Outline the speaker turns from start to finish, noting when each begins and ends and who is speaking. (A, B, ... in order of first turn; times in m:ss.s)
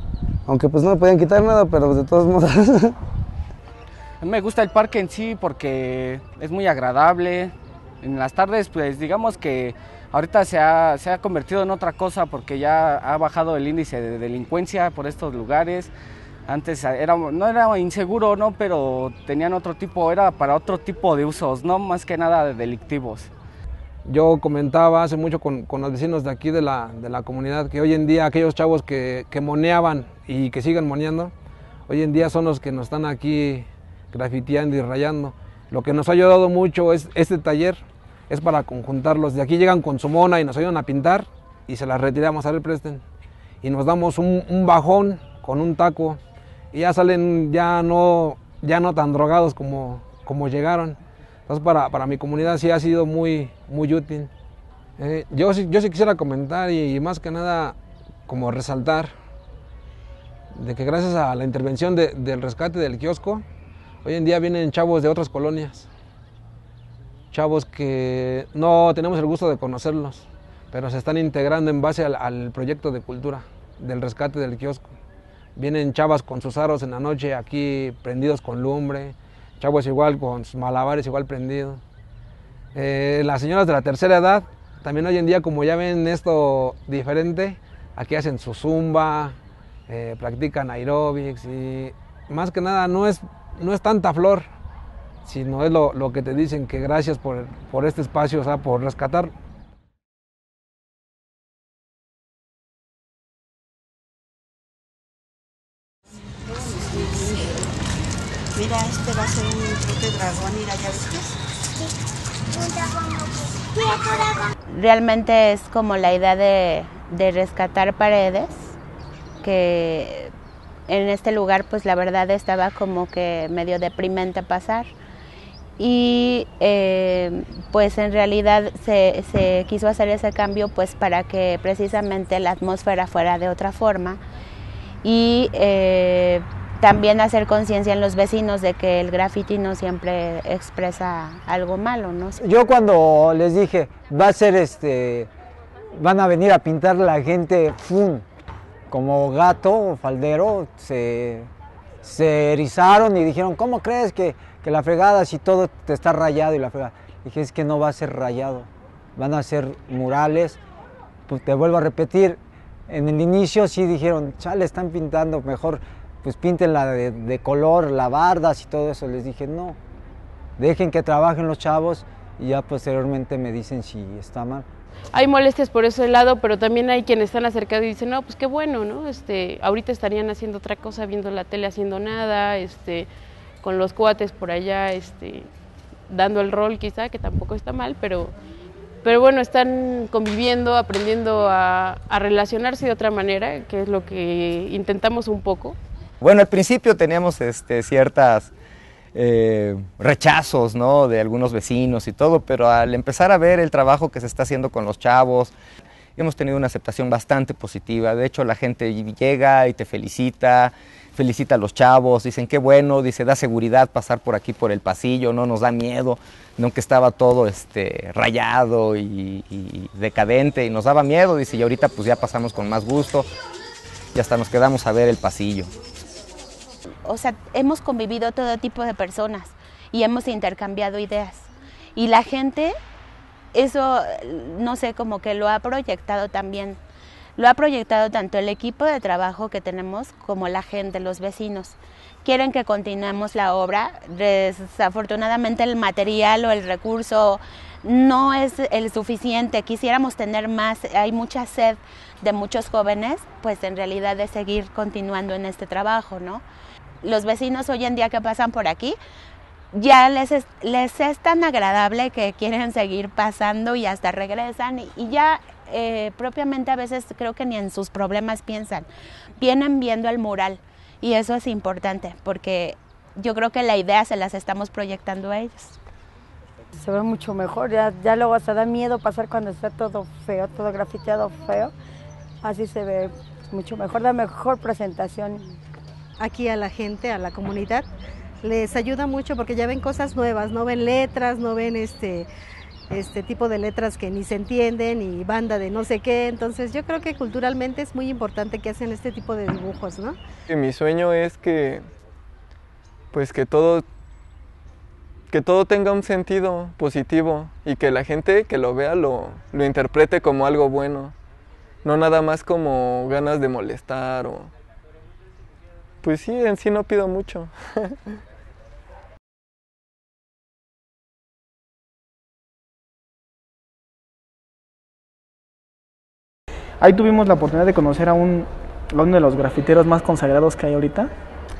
0:00.5-0:02.7 A
0:04.2-0:15.9 B
0:16.5-0:23.3 B
0:24.1-0:31.3 C
0:31.9-0:43.0 C
0:43.6-0:46.2 C
0:46.7-0:54.3 C
0:55.0-0:57.8 C
0:58.3-0:59.1 C
1:00.6-1:03.4 C
1:04.0-1:05.9 C
1:07.3-1:14.9 C
1:15.6-1:21.8 C
1:22.8-1:29.4 C
1:29.9-1:34.5 C
1:35.2-1:39.3 C
1:46.5-1:47.7 D
1:48.6-1:51.3 D
1:54.7-1:58.8 E
1:59.4-2:00.3 E
2:00.9-2:04.9 E
2:05.8-2:14.2 E
2:15.0-2:22.4 E
2:22.4-2:25.3 F
2:26.0-2:28.2 F
2:28.9-2:31.5 F
2:32.0-2:40.6 F
2:41.3-2:49.8 F
2:50.6-2:54.7 F
2:55.1-3:03.1 G
3:03.6-3:05.5 G
3:06.1-3:08.3 G
3:09.0-3:15.8 G
3:16.2-3:18.5 H
3:19.1-3:25.5 H
3:26.2-3:43.3 H
3:44.1-3:45.7 H
3:47.1-3:52.8 E
3:53.5-3:56.8 E
3:57.4-4:16.4 E
4:17.0-4:19.0 E
4:19.7-4:28.9 E
4:29.4-4:35.8 E
4:36.8-4:41.7 I
4:42.4-4:45.5 I
4:46.2-4:47.8 J
4:48.4-4:52.3 J
4:52.9-5:00.2 J
5:00.5-5:01.8 K
5:03.1-5:03.8 K
5:05.3-5:11.1 K
5:11.8-5:14.5 K
5:16.0-5:18.0 K
5:26.8-5:31.1 L